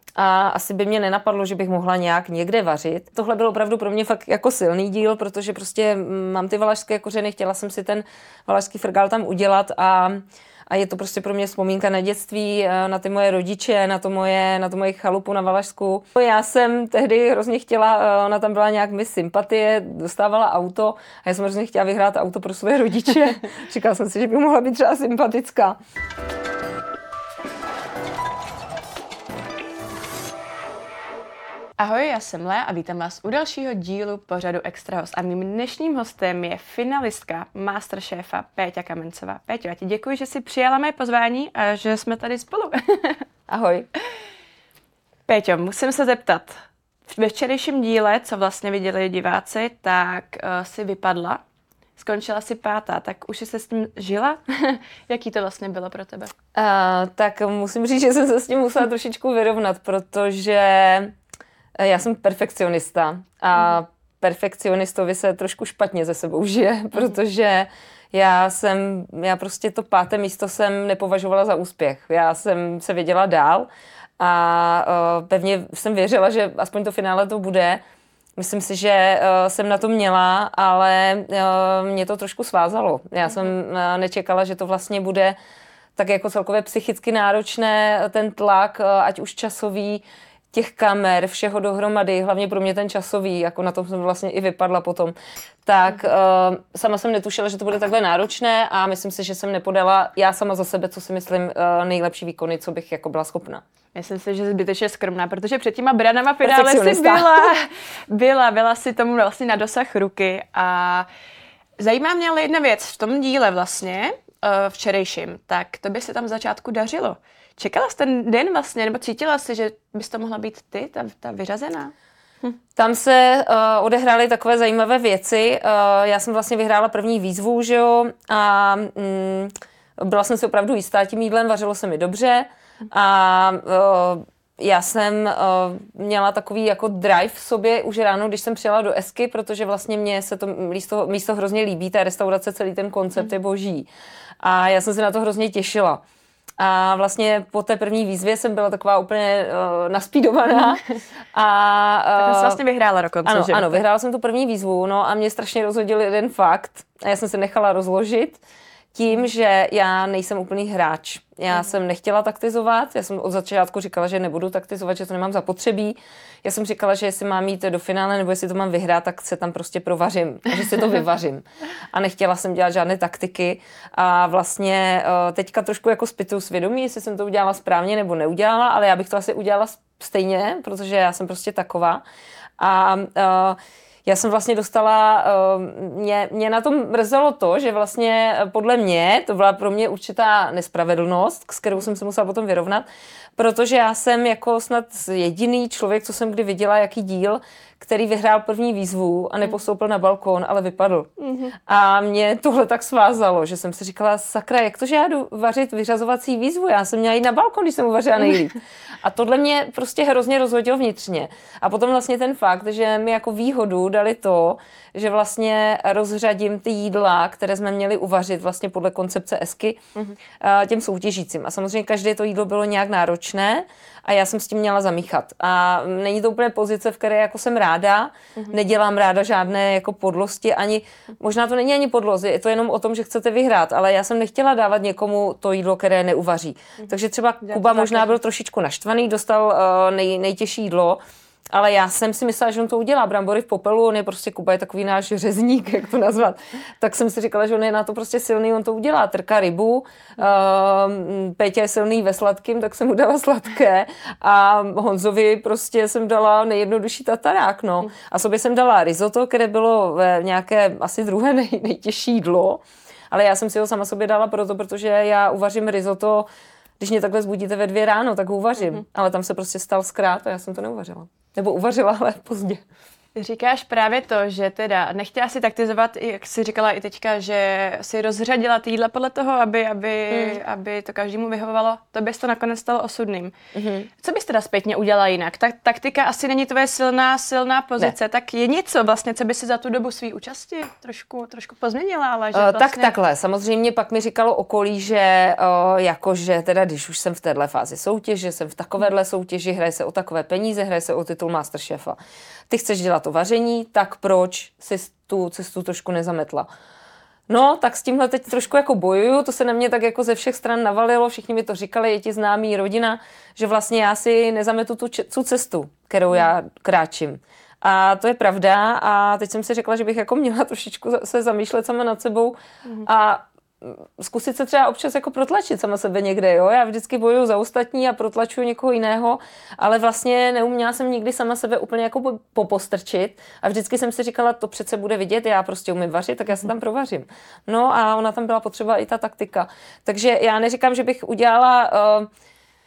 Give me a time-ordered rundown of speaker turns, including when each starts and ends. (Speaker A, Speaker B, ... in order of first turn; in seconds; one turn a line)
Speaker A: 0.2-25.8
Speaker B: 31.8-43.2
Speaker A: 43.5-43.9
Speaker B: 45.3-51.4
Speaker B: 52.0-56.3
Speaker A: 56.5-61.1
Speaker A: 61.8-73.7
Speaker A: 74.2-77.8
Speaker A: 78.4-85.4
Speaker A: 86.0-95.2
Speaker A: 95.7-103.6
Speaker B: 104.0-111.1
Speaker A: 106.4-107.5
Speaker B: 111.8-121.9
Speaker A: 122.8-143.9
Speaker A: 144.4-146.0
Speaker A: 146.6-150.8
Speaker A: 151.3-152.6
Speaker B: 152.2-153.8
Speaker A: 153.2-158.4
Speaker A: 158.9-182.0
Speaker A: 182.6-192.8
Speaker A: 193.4-219.8
Speaker B: 201.2-201.5
Speaker A: 220.4-241.0
Speaker B: 237.5-238.1
Speaker A: 241.5-266.3
Speaker A: 266.8-272.6
Speaker B: 273.2-283.3
Speaker A: 280.1-280.4
Speaker A: 283.5-283.9
Speaker B: 283.9-292.9
Speaker A: 292.3-302.0
Speaker A: 302.5-306.5
Speaker A: 307.3-342.1